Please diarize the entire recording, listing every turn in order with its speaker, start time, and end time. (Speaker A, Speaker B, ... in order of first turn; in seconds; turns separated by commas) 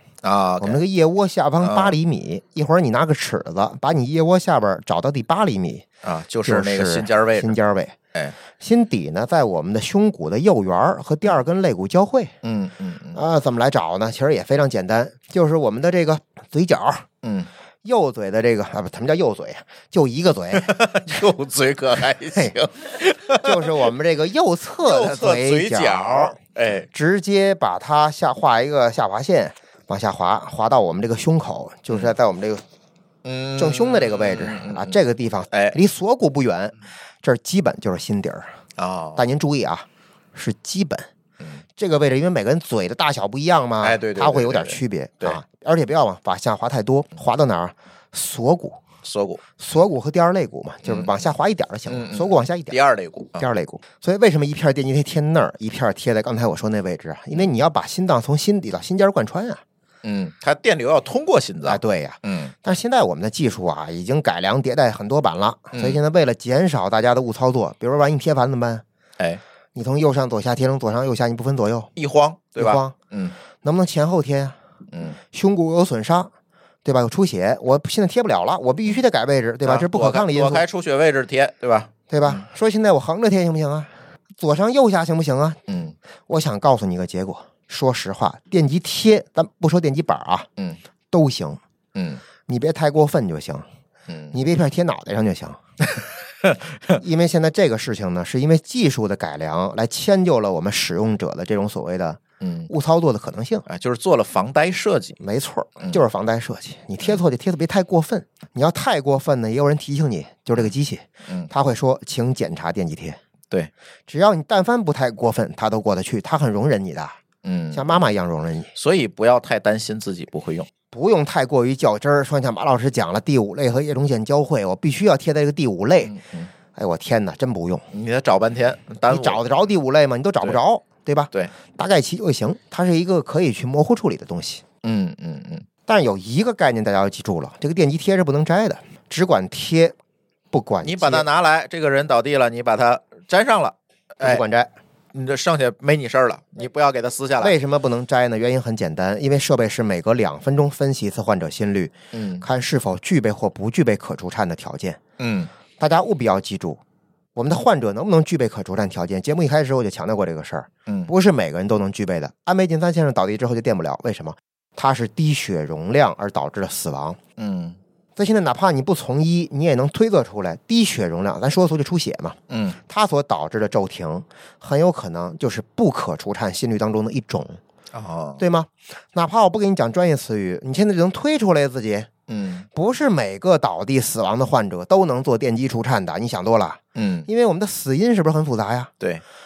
Speaker A: 0.2-0.8, Speaker B: 0.6-5.9, Speaker A: 1.6-1.9, Speaker A: 6.0-7.5, Speaker B: 6.4-8.0, Speaker B: 8.6-12.3, Speaker A: 12.4-13.2, Speaker B: 13.1-17.0, Speaker A: 17.2-17.5, Speaker B: 17.8-20.8, Speaker A: 20.5-23.9, Speaker B: 23.4-26.4, Speaker A: 24.8-26.9, Speaker B: 26.9-32.6, Speaker A: 33.2-35.0, Speaker B: 33.6-38.5, Speaker A: 35.5-35.8, Speaker A: 38.8-39.2, Speaker B: 39.1-41.1, Speaker B: 41.8-48.8, Speaker A: 43.8-45.4, Speaker A: 49.0-49.4, Speaker B: 49.6-52.8, Speaker A: 50.8-51.1, Speaker A: 51.9-53.4, Speaker B: 53.4-59.6, Speaker A: 60.0-62.5, Speaker B: 61.6-68.8, Speaker A: 65.7-66.0, Speaker B: 69.7-71.9, Speaker A: 72.0-73.3, Speaker B: 72.5-73.0, Speaker B: 73.6-74.6, Speaker A: 74.9-75.2, Speaker B: 75.3-76.3, Speaker B: 76.8-80.6, Speaker A: 79.6-82.4, Speaker B: 82.1-85.6, Speaker A: 85.7-86.0, Speaker B: 86.3-90.5, Speaker B: 91.1-91.6, Speaker A: 91.9-92.2, Speaker B: 92.5-93.7, Speaker A: 94.1-94.3, Speaker B: 94.3-95.6, Speaker A: 96.4-97.0, Speaker B: 96.9-103.6, Speaker A: 102.4-102.7, Speaker A: 103.7-105.2, Speaker B: 105.2-113.2, Speaker B: 114.1-117.2, Speaker A: 117.4-117.9, Speaker B: 117.7-118.7, Speaker A: 118.7-120.7, Speaker B: 120.9-126.1, Speaker A: 126.0-126.5, Speaker B: 126.7-127.8, Speaker A: 127.9-129.4, Speaker B: 129.1-134.6, Speaker A: 134.8-135.7, Speaker B: 135.9-139.9, Speaker B: 140.5-141.3, Speaker A: 140.8-144.4, Speaker B: 144.2-144.7, Speaker A: 145.1-147.6, Speaker B: 147.4-155.0, Speaker A: 152.1-152.4, Speaker A: 155.2-155.5, Speaker B: 155.8-156.8, Speaker B: 157.3-167.2, Speaker A: 160.9-161.1, Speaker A: 167.4-167.8, Speaker B: 168.2-177.6, Speaker A: 172.5-172.8, Speaker A: 177.9-178.4, Speaker B: 178.4-182.1, Speaker A: 182.3-182.7, Speaker B: 182.7-188.9, Speaker A: 186.9-187.3